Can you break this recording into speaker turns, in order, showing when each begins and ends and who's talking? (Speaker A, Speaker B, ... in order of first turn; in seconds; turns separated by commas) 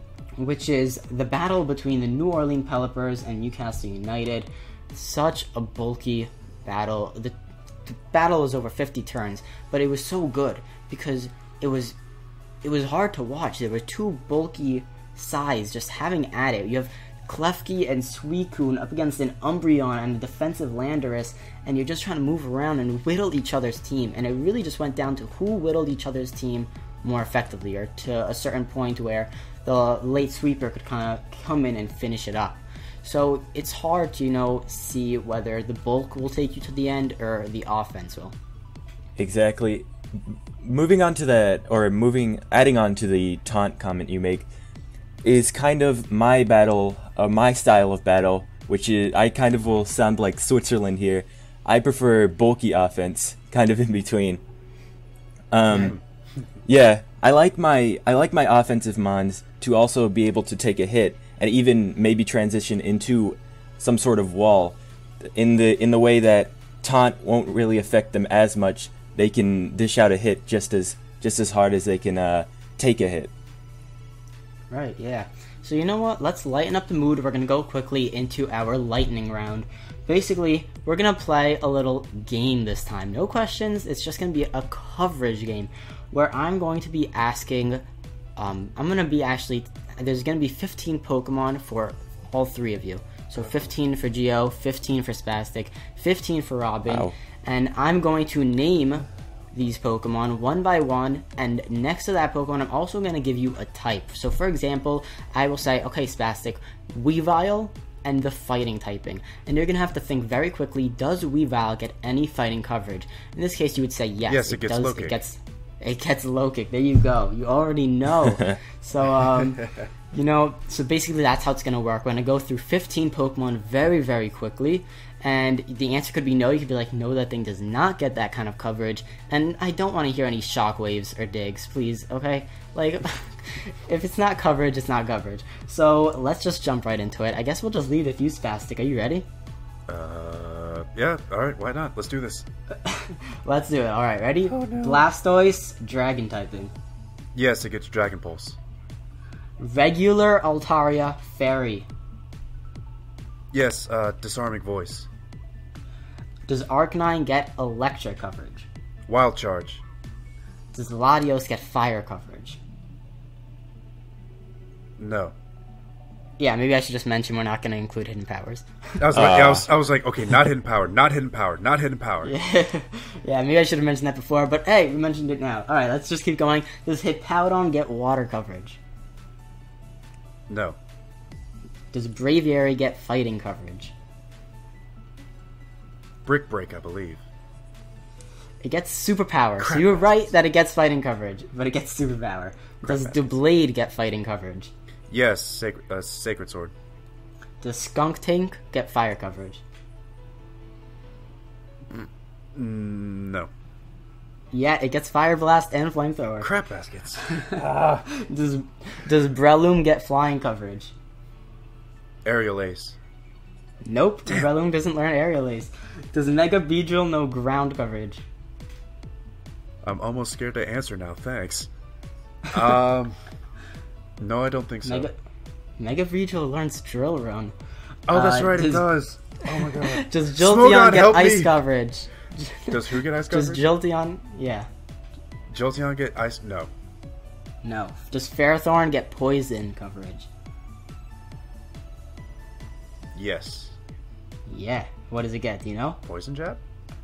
Speaker A: 0.4-12.0, Speaker A: 12.6-38.4, Speaker B: 39.2-39.9, Speaker B: 40.6-44.5, Speaker B: 45.2-54.4, Speaker B: 55.5-56.0, Speaker C: 55.7-56.0, Speaker B: 56.7-64.8, Speaker B: 65.3-73.3, Speaker A: 74.7-87.8, Speaker A: 88.4-139.3, Speaker B: 96.9-97.1, Speaker C: 114.3-115.2, Speaker C: 139.9-142.4, Speaker A: 142.8-146.7, Speaker C: 144.4-145.1, Speaker C: 147.3-148.6, Speaker A: 149.6-151.9, Speaker C: 153.5-155.1, Speaker A: 156.5-158.7, Speaker C: 159.1-159.8, Speaker A: 160.7-162.6, Speaker C: 165.0-165.3, Speaker A: 166.4-168.7, Speaker C: 169.0-172.3, Speaker B: 169.1-169.7, Speaker A: 172.2-178.8, Speaker C: 180.5-180.8, Speaker A: 181.9-183.9, Speaker C: 186.2-187.2, Speaker A: 188.6-194.7, Speaker C: 189.6-190.3, Speaker C: 192.8-193.2, Speaker C: 195.1-196.7, Speaker A: 197.6-199.6, Speaker C: 201.9-203.5, Speaker A: 204.5-206.5, Speaker C: 206.4-208.0, Speaker A: 207.3-210.9, Speaker C: 212.2-213.0, Speaker A: 213.8-218.2, Speaker C: 219.8-221.7, Speaker C: 222.5-223.2, Speaker C: 224.2-225.1, Speaker A: 224.8-225.2, Speaker A: 225.8-227.5, Speaker C: 228.1-231.6, Speaker A: 228.1-228.9, Speaker A: 229.8-234.7, Speaker C: 232.7-233.7, Speaker C: 235.5-236.7, Speaker A: 237.6-240.3, Speaker C: 243.1-243.8, Speaker A: 244.5-246.0, Speaker C: 246.0-246.6